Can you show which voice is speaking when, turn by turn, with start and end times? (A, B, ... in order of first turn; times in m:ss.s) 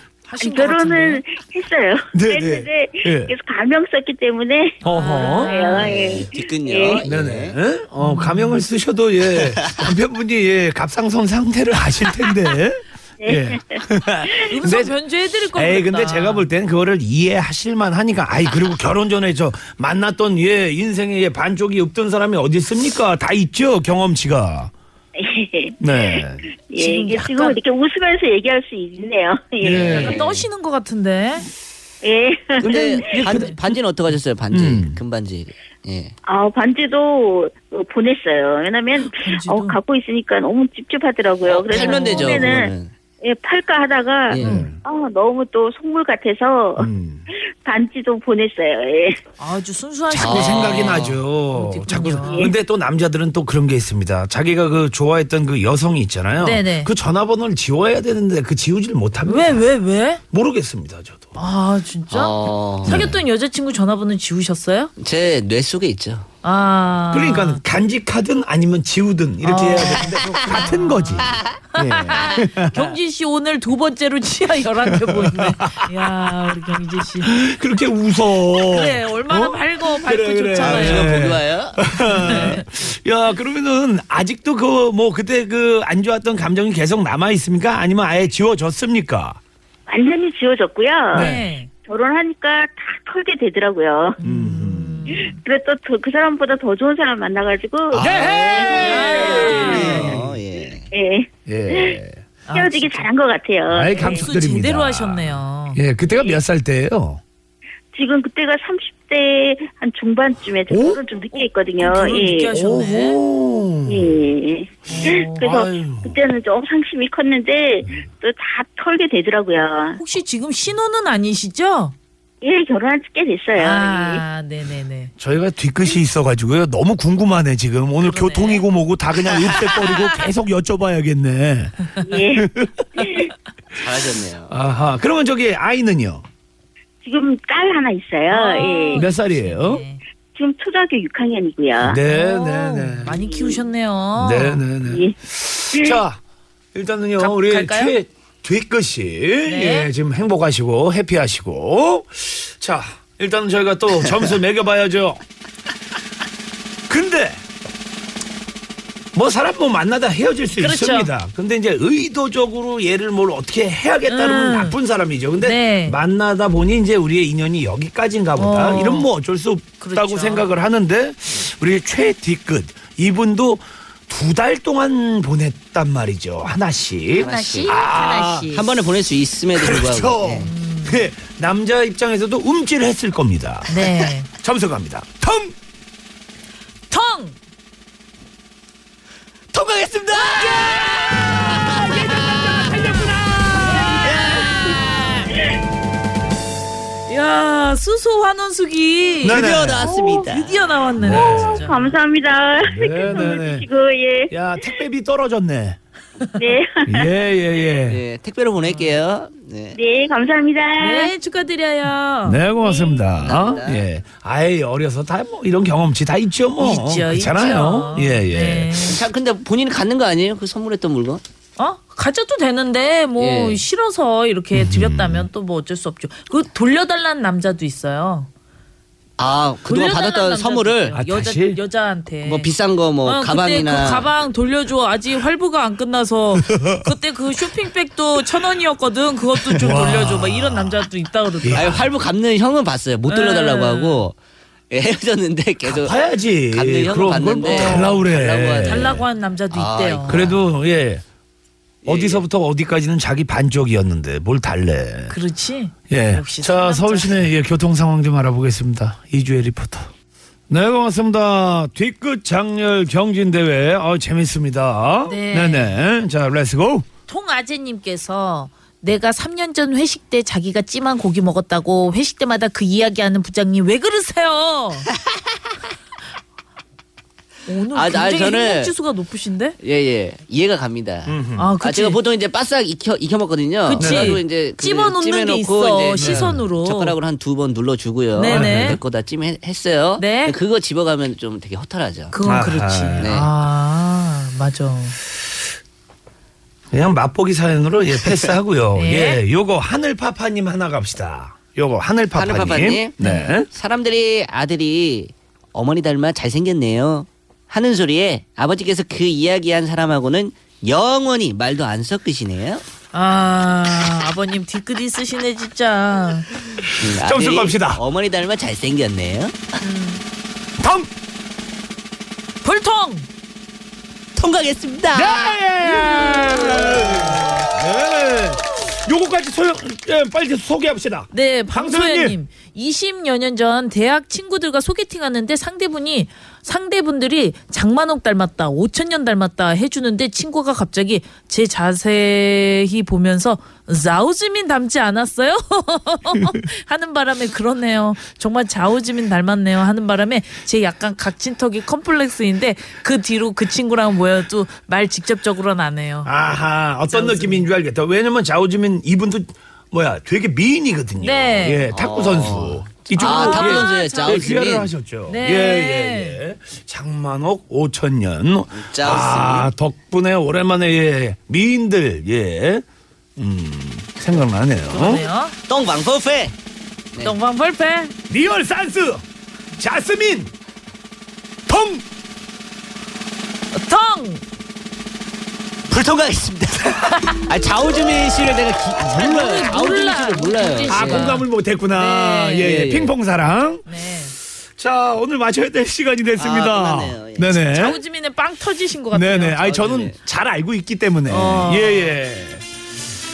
0:00.2-0:01.2 A
0:00.4-0:07.0 B
0:02.1-0:03.3 C
0:04.8-0:06.0 A
0:04.8-0:05.5 C
0:05.7-0:07.6 D
0:07.0-0:14.9 C
0:08.0-0:08.6 A
0:13.2-0:13.8 B
0:14.5-0:16.5 A
0:15.5-0:24.7 C
0:25.2-0:30.2 B
0:25.8-0:26.5 C
0:26.8-0:27.6 A
0:29.6-0:30.2 C
0:29.7-0:30.5 D
0:29.9-0:31.4 A
0:32.0-0:33.2 B
0:32.6-0:33.6 C
0:32.6-0:36.1 D
0:34.5-0:35.0 C
0:36.2-0:49.2 B
0:39.0-0:39.8 A
0:41.4-0:42.9 D
0:41.7-0:42.6 A
0:44.3-0:44.6 D
0:44.4-0:44.8 C
0:44.4-0:44.7 A
0:46.8-0:47.2 C
0:49.4-0:52.4 A
0:50.1-0:59.6 C
0:50.1-0:51.2 D
0:52.2-0:52.5 B
0:56.4-0:56.9 A
0:59.2-1:00.2 A
1:00.3-1:01.3 C
1:01.3-1:04.9 A
1:02.1-1:03.1 D
1:02.8-1:03.2 C
1:05.0-1:06.3 D
1:06.4-1:07.6 A
1:07.1-1:12.9 C
1:09.4-1:17.3 A
1:11.3-1:12.2 D
1:14.8-1:16.1 C
1:17.2-1:29.4 C
1:18.6-1:21.3 A
1:20.6-1:22.3 D
1:22.1-1:22.6 A
1:29.9-1:31.3 B
1:31.1-1:31.7 A
1:31.1-1:31.4 C
1:31.8-1:34.2 B
1:34.2-1:35.4 A
1:34.2-1:35.1 C
1:35.1-1:40.1 B
1:37.9-1:40.9 D
1:38.0-1:40.4 C
1:38.8-1:40.1 A
1:40.9-1:42.0 B
1:41.4-1:42.2 C
1:42.5-1:43.0 A
1:42.5-1:44.2 B
1:43.7-1:47.2 C
1:43.9-1:45.8 A
1:46.1-1:46.3 B
1:47.9-1:52.6 B
1:50.7-1:51.0 C
1:51.3-1:53.2 A
1:52.5-1:54.2 C
1:53.9-2:00.0 B
1:54.9-1:55.5 A
1:54.9-1:56.1 C
2:00.0-2:01.9 A
2:02.4-2:04.2 B
2:03.6-2:05.1 A
2:05.2-2:12.8 C
2:08.0-2:08.6 A
2:12.0-2:13.3 B
2:13.8-2:14.5 D
2:14.5-2:16.2 C
2:17.0-2:19.0 B
2:18.3-2:20.0 A
2:19.0-2:19.8 C
2:20.3-2:22.0 B
2:21.8-2:23.2 C
2:22.0-2:24.6 A
2:23.2-2:23.6 B
2:24.2-2:26.2 C
2:24.8-2:25.1 B
2:25.7-2:26.0 B
2:26.7-2:35.2 C
2:27.2-2:27.9 A
2:29.4-2:29.9 A
2:36.9-2:37.4 C
2:39.1-2:58.5 C
2:40.6-2:41.1 A
2:44.1-2:44.8 A
2:45.4-2:46.0 A
2:48.4-2:49.1 A
2:49.8-2:50.5 A
2:57.2-2:57.8 D
2:57.2-2:58.6 A
2:58.4-3:00.5 D
2:59.5-3:03.9 C
3:00.4-3:01.1 A
3:03.7-3:04.3 A
3:04.4-3:05.5 C
3:06.9-3:07.4 A
3:09.5-3:12.5 D
3:10.1-3:11.4 C
3:10.1-3:14.9 A
3:12.5-3:14.3 C
3:14.0-3:15.1 D
3:17.1-3:21.8 A
3:19.2-3:19.9 C
3:19.2-3:20.6 D
3:19.8-3:20.3 B
3:21.0-3:21.7 C
3:21.1-3:24.6 B
3:22.7-3:23.6 C
3:24.3-3:25.8 C
3:26.4-3:27.0 B
3:26.8-3:28.0 C
3:27.9-3:29.8 D
3:28.6-3:29.0 A
3:29.7-3:31.1 B
3:30.8-3:33.1 A
3:32.2-3:38.9 C
3:33.2-3:33.8 D
3:36.6-3:39.0 A
3:38.7-3:41.2 D
3:41.6-3:48.3 A
3:43.2-3:43.6 D
3:44.5-3:45.3 C
3:49.2-3:51.0 D
3:49.7-3:52.5 A
3:50.9-3:51.6 C
3:52.2-3:54.1 D
3:53.0-4:01.8 A
3:56.4-3:56.8 C
3:59.5-4:00.8 C
4:01.4-4:01.9 C
4:01.5-4:04.1 D
4:03.1-4:04.0 A
4:04.7-4:06.0 D
4:05.6-4:09.0 C
4:06.5-4:10.4 D
4:07.4-4:08.0 A
4:08.6-4:10.3 A
4:10.0-4:11.0 C
4:11.8-4:12.2 D
4:11.8-4:15.2 C
4:15.1-4:17.2 A
4:15.9-4:19.9 C
4:20.5-4:26.9 C
4:25.1-4:25.8 A
4:27.1-4:34.9 A
4:37.4-4:39.6 A
4:37.7-4:38.7 D
4:39.6-4:52.2 D
4:41.0-4:41.5 C
4:41.4-4:42.0 A
4:43.7-4:47.0 A
4:43.8-4:44.2 C
4:46.0-4:46.4 C
4:48.1-4:48.8 A
4:48.2-4:48.8 C
4:50.0-4:50.4 A
4:52.1-4:55.0 A
4:52.2-4:53.2 C
4:53.0-4:53.3 D
4:56.7-5:03.5 C
4:58.8-4:59.2 A
5:02.1-5:12.6 D
5:03.0-5:03.4 A
5:12.9-5:16.3 A
5:16.8-5:17.8 C
5:16.8-5:19.4 D
5:19.6-5:20.0 A
5:20.6-5:20.9 C
5:22.4-5:23.1 A
5:24.1-5:25.2 D
5:24.9-5:32.2 C
5:25.5-5:27.3 A
5:31.1-5:56.1 A
5:56.0-6:12.6 C
5:56.9-5:57.5 A
6:01.0-6:01.7 A
6:01.7-6:04.7 D
6:02.9-6:04.4 A
6:05.0-6:06.2 A
6:08.5-6:09.5 D
6:13.2-6:15.0 C
6:14.7-6:15.3 A
6:15.5-6:16.3 D
6:17.0-6:17.9 A
6:18.1-6:19.0 C
6:19.6-6:20.3 C
6:21.5-6:21.8 C
6:23.5-6:24.2 A
6:25.7-6:31.2 D
6:28.8-6:32.6 A
6:30.7-6:33.6 C
6:32.4-6:32.9 D
6:33.6-6:34.1 A
6:34.6-6:37.8 C
6:36.2-6:37.3 D
6:37.4-6:39.6 A
6:38.9-6:42.4 C
6:39.4-6:40.0 D
6:41.1-6:41.9 A